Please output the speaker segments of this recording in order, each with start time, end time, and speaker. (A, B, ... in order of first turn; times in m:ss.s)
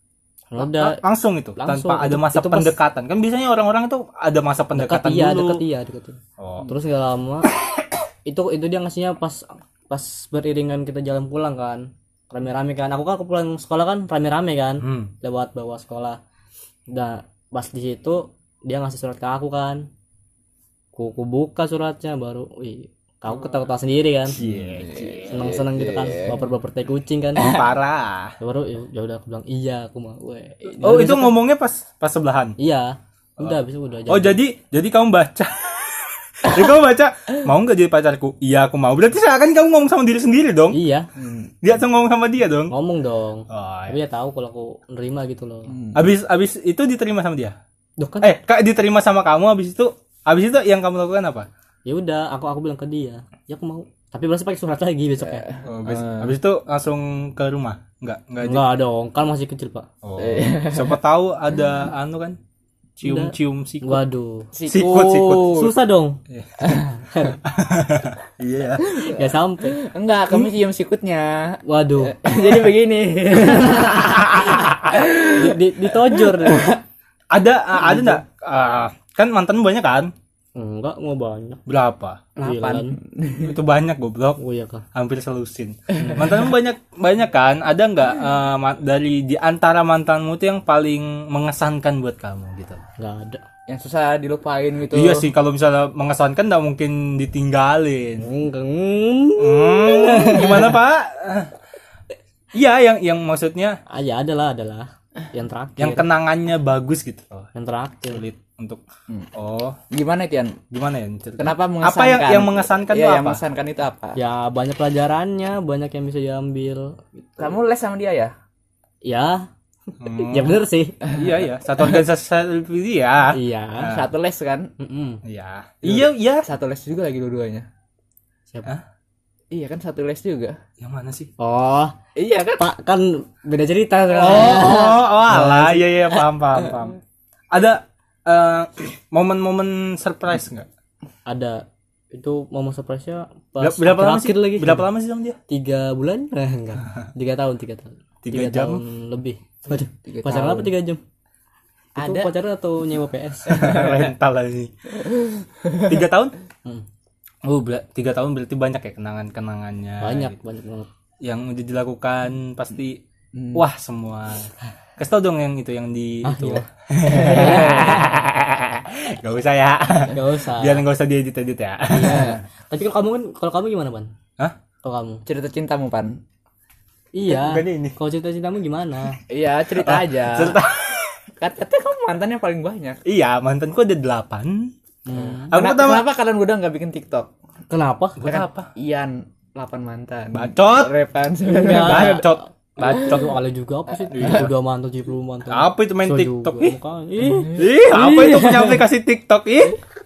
0:00.5-0:01.0 A
0:00.6-0:05.6 B
0:01.5-0:02.8 A
0:04.7-0:07.5 A
0:06.4-0:06.7 B
0:08.2-0:16.2 A
0:14.8-0:15.1 B
0:16.9-0:19.9 A
0:21.0-0:24.4 A
0:24.3-0:25.4 B
0:24.4-0:26.4 C
0:25.3-0:27.5 A
0:27.4-0:28.3 B
0:28.4-0:31.3 A
0:30.8-0:31.1 C
0:30.8-0:32.6 B
0:32.6-0:34.4 A
0:33.4-0:40.8 B
0:40.7-0:41.1 A
0:41.2-0:41.5 C
0:41.6-0:42.7 B
0:42.7-0:45.7 A
0:43.5-0:44.0 B
0:45.7-0:46.1 C
0:45.9-0:47.5 B
0:48.0-0:48.4 A
0:48.2-0:51.5 B
0:51.8-0:55.5 A
0:55.3-0:56.3 C
0:55.6-0:58.7 B
0:58.4-0:59.9 A
1:00.0-1:02.4 B
1:00.2-1:01.0 C
1:03.0-1:04.0 B
1:03.0-1:04.5 A
1:04.5-1:05.7 C
1:04.6-1:05.6 B
1:05.4-1:06.2 A
1:06.3-1:06.7 B
1:07.1-1:07.4 A
1:07.4-1:09.0 B
1:09.0-1:09.8 A
1:09.8-1:15.5 C
1:11.6-1:12.2 A
1:14.1-1:14.8 B
1:15.2-1:16.8 A
1:17.3-1:20.1 B
1:20.6-1:21.6 A
1:21.7-1:22.3 B
1:22.4-1:23.5 C
1:22.4-1:23.0 A
1:23.4-1:24.4 B
1:24.4-1:24.8 A
1:24.9-1:32.8 B
1:26.0-1:26.4 A
1:33.0-1:33.4 A
1:33.7-1:35.3 C
1:34.9-1:38.3 B
1:38.2-1:40.8 A
1:39.4-1:41.5 B
1:42.5-1:43.8 B
1:43.9-1:46.0 A
1:45.8-1:47.5 B
1:47.5-1:48.2 A
1:48.1-1:48.8 B
1:49.3-1:49.8 B
1:49.9-1:50.6 C
1:50.7-1:53.4 B
1:51.4-1:54.2 C
1:54.1-1:57.4 A
1:57.4-1:58.3 C
1:59.0-1:59.5 A
2:00.0-2:04.1 B
2:00.1-2:01.0 A
2:03.3-2:04.0 A
2:03.8-2:04.7 C
2:04.8-2:05.2 A
2:05.2-2:06.4 B
2:06.4-2:07.7 C
2:09.5-2:10.6 C
2:10.8-2:11.3 B
2:11.4-2:11.9 A
2:12.1-2:12.6 C
2:12.6-2:16.2 A
2:14.1-2:17.0 B
2:17.5-2:20.7 B
2:21.2-2:24.9 A
2:23.6-2:25.4 B
2:25.5-2:31.0 A
2:28.2-2:28.8 B
2:29.7-2:30.7 C
2:32.0-2:32.3 C
2:32.0-2:33.6 A
2:33.5-2:35.1 B
2:33.5-2:33.8 C
2:35.6-2:35.9 C
2:35.8-2:36.3 B
2:37.4-2:40.4 B
2:40.0-2:40.9 A
2:41.2-2:43.0 B
2:43.3-2:43.6 C
2:43.5-2:52.4 B
2:46.2-2:48.1 A
2:47.2-2:47.9 C
2:50.1-2:50.8 A
2:51.9-2:54.1 A
2:52.0-2:52.4 C
2:54.8-2:55.2 A
2:55.2-2:56.2 C
2:57.1-2:59.2 A
2:57.3-2:58.0 B
2:59.3-3:00.6 C
2:59.7-3:01.1 B
3:01.4-3:03.0 C
3:03.0-3:04.7 B
3:05.0-3:05.5 A
3:05.4-3:06.1 B
3:05.5-3:07.3 C
3:07.7-3:08.2 A
3:08.2-3:08.7 B
3:08.2-3:12.2 C
3:10.3-3:10.9 B
3:11.5-3:18.8 A
3:11.6-3:13.4 B
3:14.1-3:14.5 B
3:15.5-3:16.8 B
3:17.5-3:19.8 B